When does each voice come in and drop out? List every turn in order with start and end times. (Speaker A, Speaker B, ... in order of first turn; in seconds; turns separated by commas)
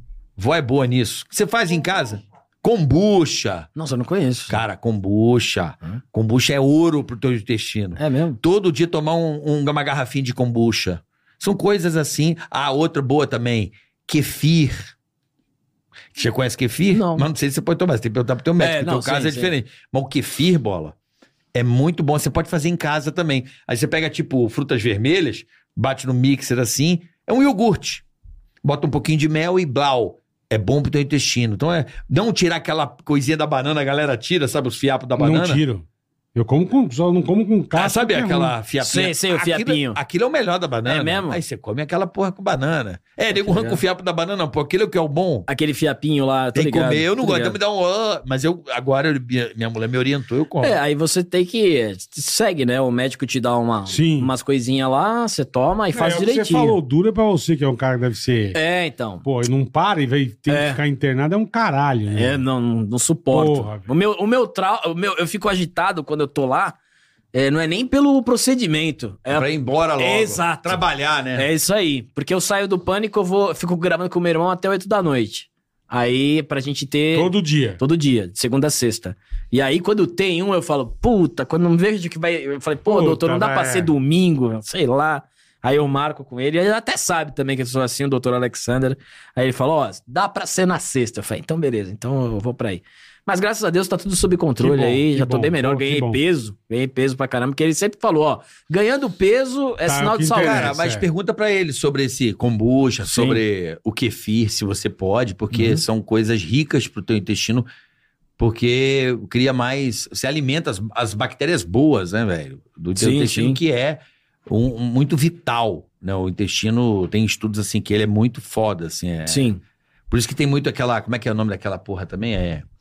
Speaker A: 0.4-3.7, Speaker B: 3.8-4.6, Speaker A: 4.5-14.9, Speaker B: 8.0-8.4, Speaker A: 16.1-20.9, Speaker B: 16.9-17.2, Speaker B: 18.6-19.5, Speaker A: 21.5-28.0, Speaker A: 28.6-35.6, Speaker C: 35.2-38.5, Speaker A: 37.7-45.5, Speaker B: 38.8-40.0, Speaker B: 40.9-41.4, Speaker B: 43.3-43.8, Speaker B: 45.5-47.6, Speaker A: 46.5-50.8, Speaker B: 50.6-56.8, Speaker C: 53.9-54.3, Speaker C: 55.9-58.6, Speaker B: 58.5-59.2, Speaker C: 59.2-62.4, Speaker B: 60.5-60.8, Speaker B: 62.1-66.8, Speaker C: 63.3-63.9, Speaker B: 67.3-70.8, Speaker A: 69.3-71.5, Speaker B: 71.3-100.7, Speaker C: 77.1-77.8, Speaker C: 82.9-83.9, Speaker C: 94.6-96.2, Speaker C: 99.8-101.1, Speaker A: 100.3-107.7, Speaker B: 103.1-103.4, Speaker B: 105.5-105.8, Speaker A: 108.4-119.5, Speaker B: 113.0-113.6, Speaker B: 119.3-119.6, Speaker A: 120.1-122.7